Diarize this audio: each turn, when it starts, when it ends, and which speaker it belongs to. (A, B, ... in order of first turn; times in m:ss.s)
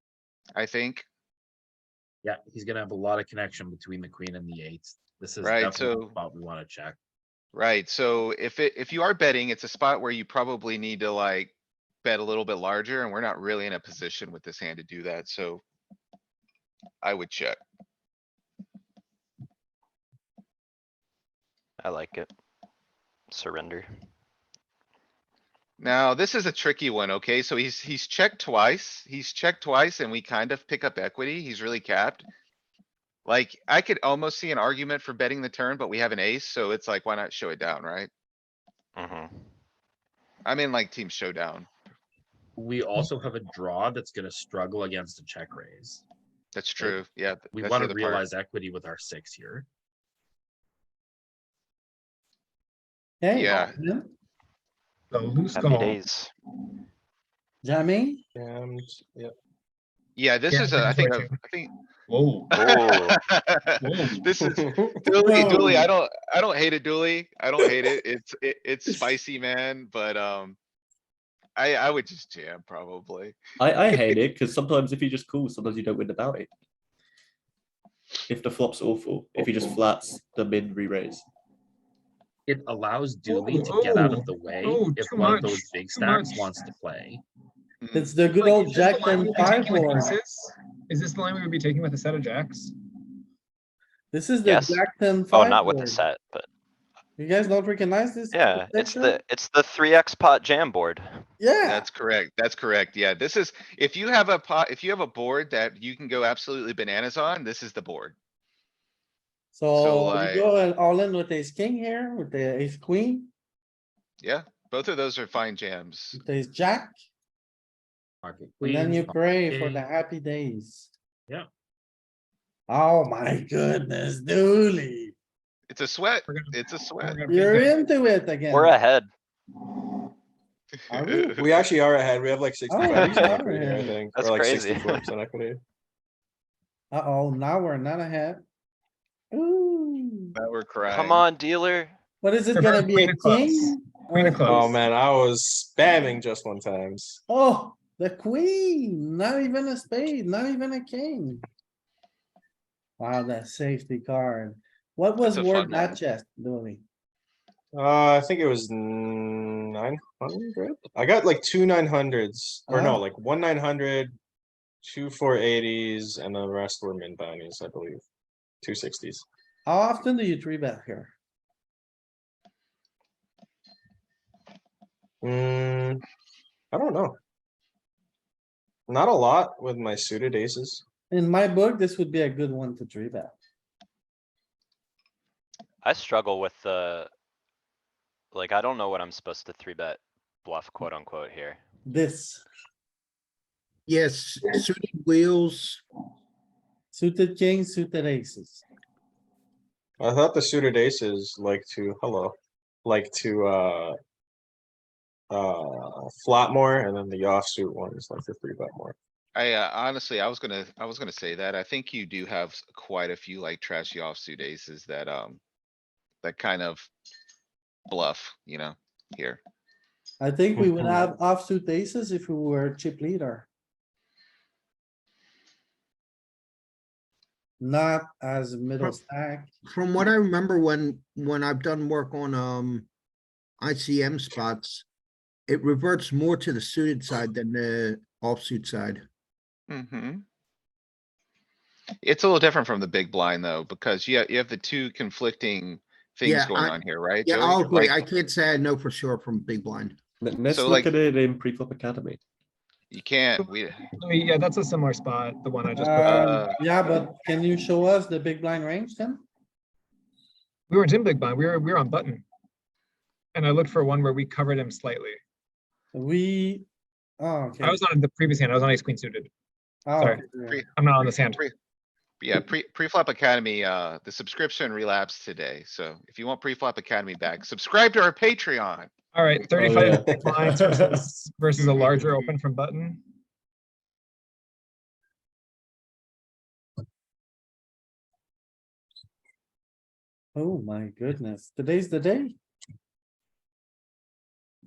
0:00.5-0:01.1 A
0:02.2-0:07.0 B
0:05.4-0:06.1 A
0:07.5-0:11.5 A
0:12.0-0:15.6 A
0:17.0-0:17.6 A
0:21.8-0:22.3 C
0:23.3-0:23.9 C
0:25.8-0:32.2 A
0:33.2-0:38.1 A
0:39.0-0:39.3 C
0:40.4-0:41.7 A
0:42.6-0:46.0 B
0:46.5-0:48.2 A
0:47.5-0:49.7 B
0:53.2-0:54.1 D
0:53.3-0:53.8 A
0:55.1-0:56.0 E
0:55.5-0:56.3 C
0:57.6-0:58.2 D
0:58.4-0:59.3 F
1:00.2-1:01.7 A
1:00.5-1:01.4 E
1:02.1-1:02.6 E
1:02.5-1:10.6 A
1:02.6-1:03.2 C
1:03.8-1:04.3 E
1:04.4-1:05.1 F
1:05.2-1:05.9 D
1:11.6-1:13.4 A
1:13.6-1:16.5 G
1:18.3-1:21.2 G
1:22.5-1:27.2 B
1:23.3-1:26.5 E
1:27.8-1:28.2 A
1:27.9-1:30.1 D
1:28.3-1:32.7 E
1:34.1-1:36.0 D
1:34.4-1:36.5 C
1:37.2-1:39.2 D
1:38.3-1:41.2 C
1:41.4-1:41.8 D
1:41.6-1:48.1 A
1:49.5-1:53.3 D
1:49.7-1:50.5 A
1:54.2-1:56.2 A
1:56.1-1:57.0 D
1:58.2-1:59.8 B
1:58.6-2:00.9 D
2:02.7-2:05.1 D
2:05.7-2:07.2 A
2:06.3-2:07.8 E
2:07.3-2:08.8 D
2:08.5-2:09.1 C
2:10.9-2:11.5 D
2:11.0-2:11.4 A
2:11.4-2:15.6 F
2:12.7-2:14.0 D
2:12.8-2:13.4 C
2:14.1-2:15.1 C
2:16.9-2:18.4 D
2:19.3-2:20.3 D
2:20.3-2:21.2 A
2:20.8-2:21.9 C
2:22.2-2:24.8 D
2:22.5-2:24.8 E
2:24.4-2:27.2 F
2:27.3-2:31.4 D
2:33.0-2:36.8 D
2:35.2-2:36.0 A
2:37.7-2:44.1 F
2:42.7-2:43.0 D
2:44.8-2:48.0 F
2:48.6-2:49.2 F
2:49.6-2:51.1 D
2:55.2-2:56.0 F
2:56.7-2:57.2 F
2:58.9-3:00.8 F
3:01.1-3:03.3 D
3:05.8-3:07.1 C
3:08.3-3:11.6 C
3:11.8-3:12.4 D
3:13.9-3:15.8 H
3:16.9-3:18.6 D
3:20.0-3:24.0 F
3:25.3-3:28.9 F
3:29.3-3:35.4 A
3:36.2-3:36.9 A
3:37.9-3:39.4 A
3:40.2-3:43.4 D
3:47.6-3:49.5 D
3:49.6-3:52.9 H
3:53.6-3:54.8 H
3:55.5-3:59.0 H
3:59.7-4:00.2 A
4:02.0-4:08.0 A
4:06.2-4:10.0 H
4:10.2-4:12.2 G
4:10.5-4:10.9 A
4:12.9-4:13.9 A
4:13.4-4:16.5 E
4:15.7-4:19.2 D
4:16.0-4:16.6 A
4:20.7-4:22.2 E
4:23.3-4:25.2 E
4:25.9-4:26.6 D
4:27.2-4:27.8 D
4:27.6-4:29.3 E
4:29.8-4:30.6 D
4:30.0-4:31.4 E
4:30.5-4:31.5 A
4:32.2-4:38.9 A
4:39.1-4:43.0 E
4:39.6-4:41.1 G
4:50.3-4:52.4 D